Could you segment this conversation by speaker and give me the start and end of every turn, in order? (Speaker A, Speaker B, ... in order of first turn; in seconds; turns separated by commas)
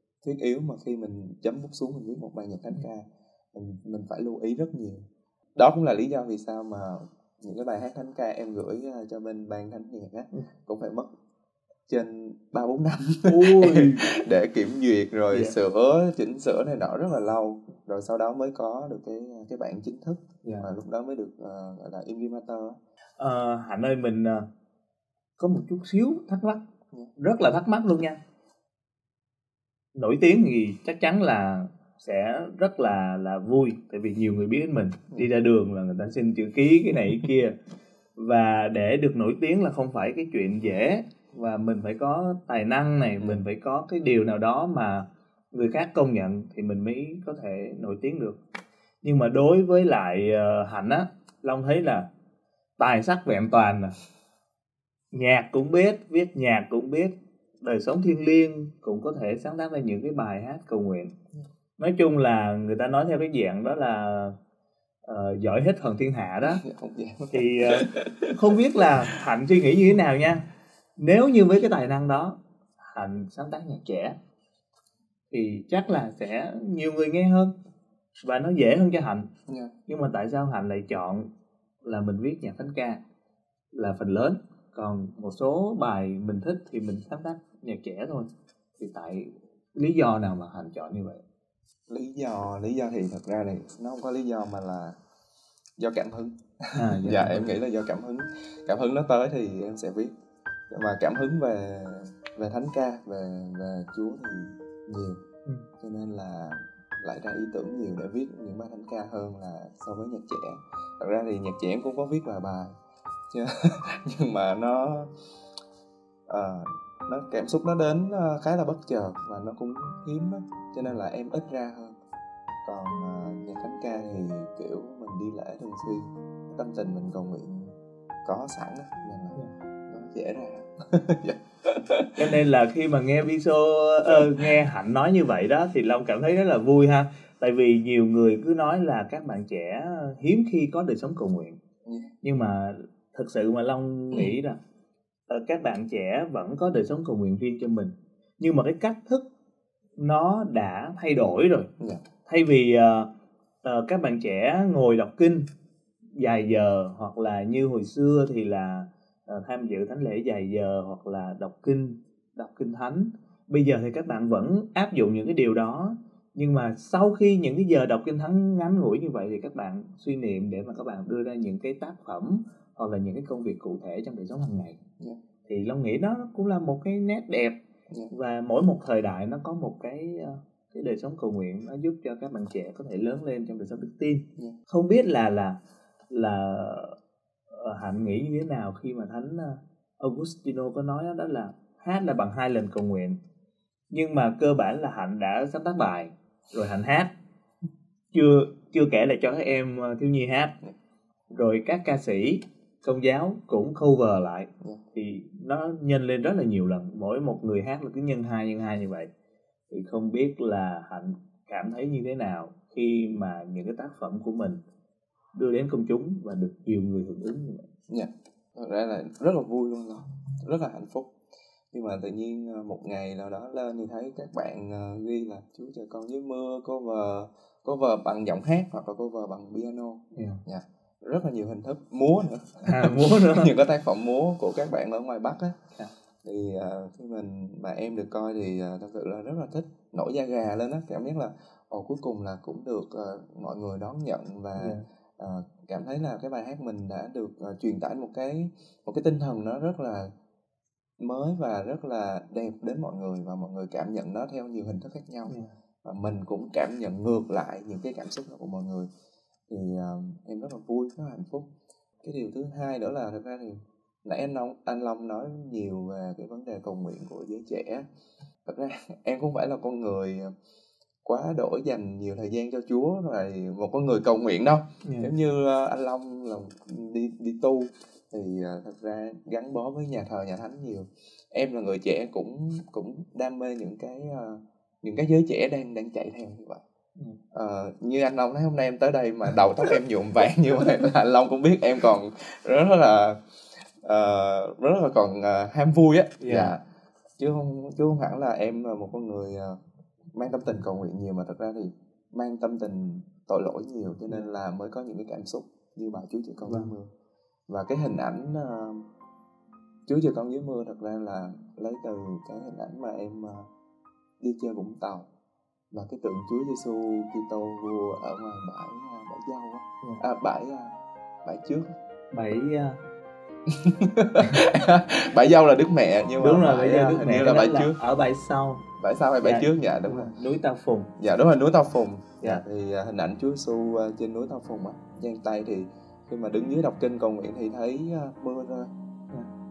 Speaker A: 0.2-11.1, Speaker A: 11.9-22.8, Speaker B: 13.3-14.1, Speaker B: 20.4-20.7, Speaker B: 23.2-24.5, Speaker B: 25.4-26.6, Speaker B: 27.2-28.2, Speaker B: 29.9-37.5, Speaker B: 38.2-48.4, Speaker B: 49.0-52.1, Speaker B: 52.8-54.0, Speaker B: 55.1-61.1, Speaker B: 61.8-64.4, Speaker B: 65.0-66.6, Speaker A: 66.6-69.1, Speaker B: 67.3-70.4, Speaker B: 71.0-74.2, Speaker B: 75.3-77.5, Speaker B: 78.2-79.3, Speaker A: 79.5-79.7, Speaker B: 79.9-81.3, Speaker B: 81.8-83.0, Speaker B: 83.7-91.2, Speaker A: 91.9-95.0, Speaker A: 95.8-100.1, Speaker B: 96.8-97.5, Speaker A: 100.7-105.2, Speaker A: 105.8-112.8, Speaker A: 113.3-115.1, Speaker A: 116.3-122.0, Speaker A: 122.6-132.3, Speaker B: 132.2-141.6, Speaker A: 134.1-134.4, Speaker A: 141.8-142.1, Speaker B: 142.2-144.6, Speaker B: 145.3-149.3, Speaker B: 150.0-151.7, Speaker A: 151.8-152.1, Speaker B: 152.3-153.1, Speaker B: 153.6-155.5, Speaker B: 156.2-174.8, Speaker B: 175.5-177.6, Speaker B: 178.1-185.6, Speaker B: 186.1-187.0, Speaker B: 187.5-193.2, Speaker B: 193.9-197.1, Speaker B: 198.1-200.6, Speaker B: 201.3-209.1, Speaker B: 209.7-214.6, Speaker B: 215.3-217.7, Speaker A: 217.9-221.1, Speaker A: 221.7-235.6, Speaker B: 230.2-230.4, Speaker B: 232.7-233.5, Speaker A: 236.2-250.1, Speaker B: 244.6-244.8, Speaker A: 251.0-258.9, Speaker B: 255.3-255.5, Speaker A: 259.5-261.5, Speaker A: 262.0-267.9, Speaker A: 268.4-270.3, Speaker A: 271.0-286.6, Speaker B: 274.8-275.1, Speaker A: 287.3-296.6, Speaker B: 296.2-296.5, Speaker A: 297.2-299.6, Speaker A: 300.1-306.9, Speaker B: 306.4-306.7, Speaker A: 307.5-308.9, Speaker A: 309.9-313.5, Speaker A: 314.2-315.1, Speaker A: 315.7-321.7, Speaker B: 322.1-322.8, Speaker A: 323.5-327.8, Speaker B: 326.2-328.6, Speaker A: 328.8-330.1, Speaker B: 329.2-330.9, Speaker A: 331.0-338.7